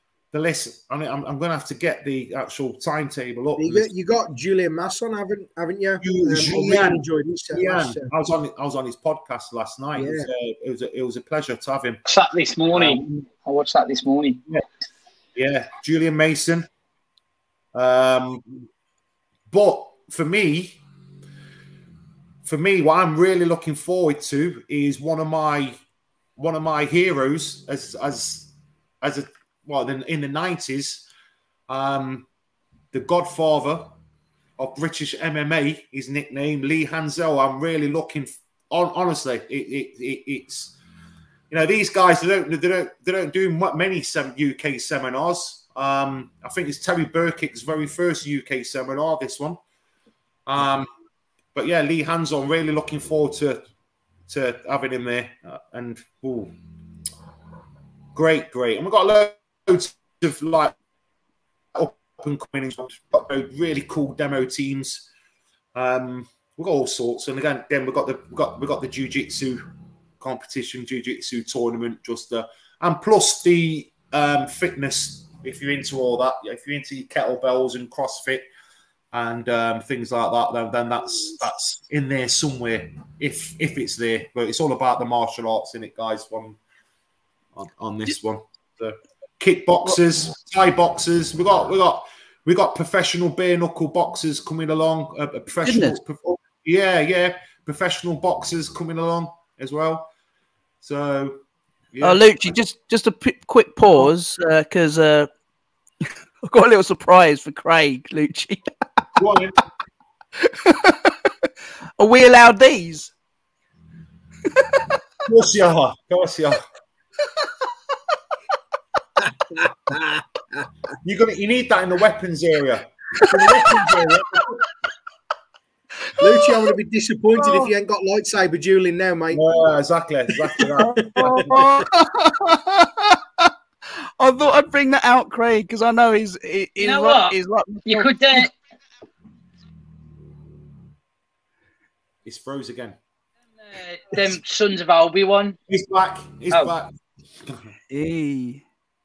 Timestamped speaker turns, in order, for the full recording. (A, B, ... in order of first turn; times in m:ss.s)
0:00.3-0:03.9 A
0:03.6-0:08.1 B
0:06.0-0:12.0 A
0:10.0-0:10.3 B
0:12.0-0:14.4 C
0:12.7-0:13.3 A
0:15.3-0:16.7 A
0:17.7-0:18.6 A
0:19.5-0:20.8 A
0:22.4-0:25.8 A
0:26.4-0:31.1 A
0:31.7-0:32.3 A
0:32.9-0:33.9 A
0:34.6-0:40.8 A
0:41.5-0:49.6 A
0:50.5-0:50.9 A
0:51.5-0:53.6 A
0:54.3-0:56.5 A
0:58.1-1:00.7 A
1:01.7-1:05.1 A
1:05.7-1:09.6 A
1:10.2-1:18.4 A
1:19.1-1:26.6 A
1:27.6-1:40.1 A
1:35.6-1:36.0 D
1:40.8-1:41.4 A
1:41.9-1:42.2 A
1:42.0-1:45.3 D
1:46.4-1:48.6 D
1:49.2-1:49.6 A
1:50.4-1:51.3 D
1:52.0-1:53.1 D
1:55.2-1:56.6 A
1:59.2-2:00.2 B
2:01.0-2:04.6 A
2:06.2-2:09.4 B
2:06.2-2:06.5 D
2:07.3-2:07.7 D
2:09.3-2:11.5 A
2:10.6-2:11.9 B
2:10.8-2:13.5 D
2:14.2-2:18.4 D
2:16.8-2:18.5 C
2:22.2-2:23.0 A
2:23.6-2:25.6 C
2:25.7-2:27.7 A
2:27.9-2:28.6 D